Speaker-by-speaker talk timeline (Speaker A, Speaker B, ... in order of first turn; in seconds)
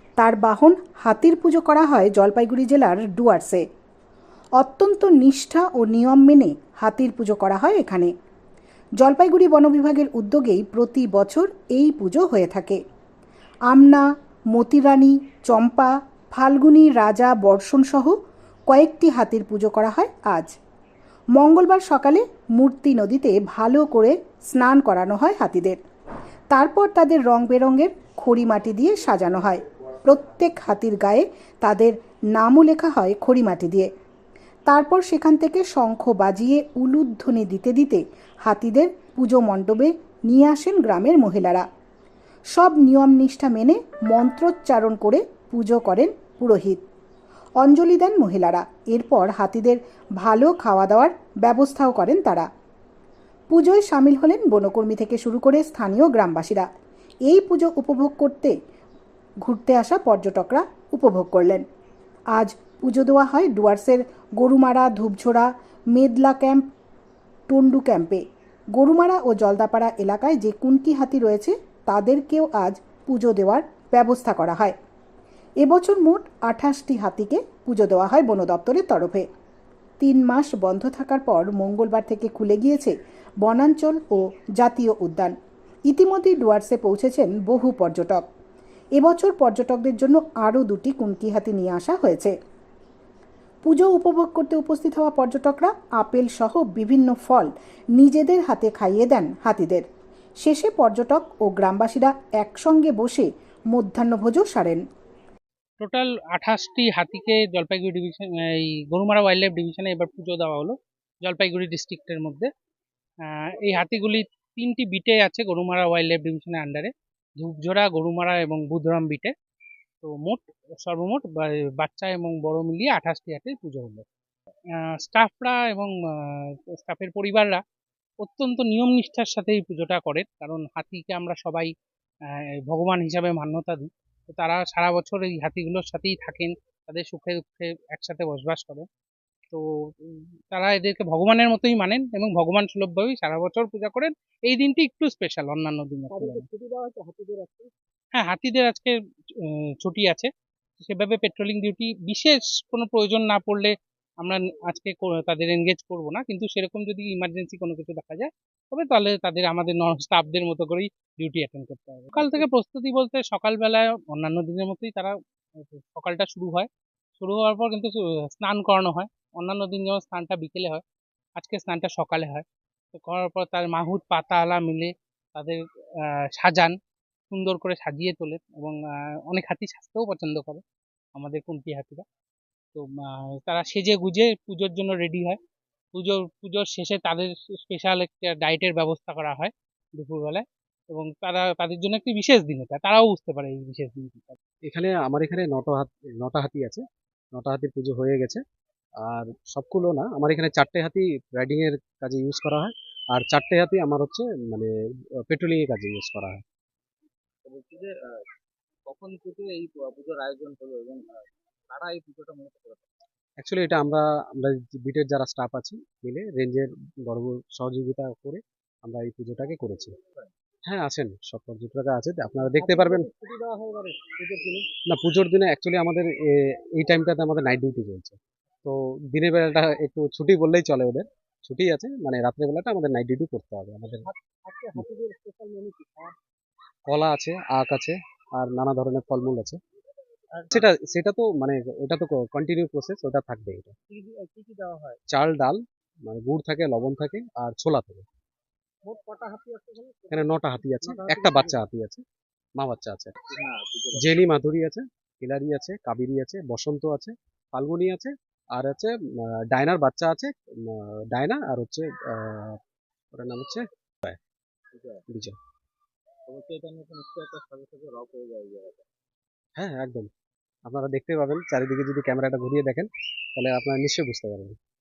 Speaker A: 0.2-3.6, 4.6-8.1, 9.0-12.8, 13.7-18.2, 18.7-20.5, 21.4-25.8, 26.5-33.9, 34.7-41.7, 42.5-46.8, 47.6-52.5, 53.5-56.7, 57.3-58.5, 59.4-61.6, 62.4-66.7, 67.5-68.2, 68.7-74.8, 75.6-79.3, 80.0-85.3, 85.9-88.2, 89.0-92.3, 93.7-99.8, 100.4-104.8
Speaker B: 105.8-112.5, 113.2-119.3, 120.0-124.0, 124.8-127.6, 128.2-131.7, 132.3-138.9, 139.5-146.5, 148.2-170.8, 171.4-176.8, 177.3-180.6, 181.2-182.1, 182.8-185.4, 185.9-194.4
Speaker C: 146.1-147.7, 207.4-208.2, 208.9-212.9, 222.5-224.7, 234.1-236.2, 240.3-240.7, 243.9-245.0, 248.8-251.6, 253.3-254.2, 264.7-265.1, 266.3-268.9
Speaker D: 194.7-196.8, 197.4-198.4, 199.0-204.7, 205.3-206.4, 213.4-219.9, 220.7-223.1, 224.9-234.1, 236.9-239.6, 240.5-243.8, 245.1-248.1, 250.1-252.0, 252.6-253.2, 254.0-262.6, 263.1-264.2, 265.1-265.4, 269.6-270.1, 270.7-274.6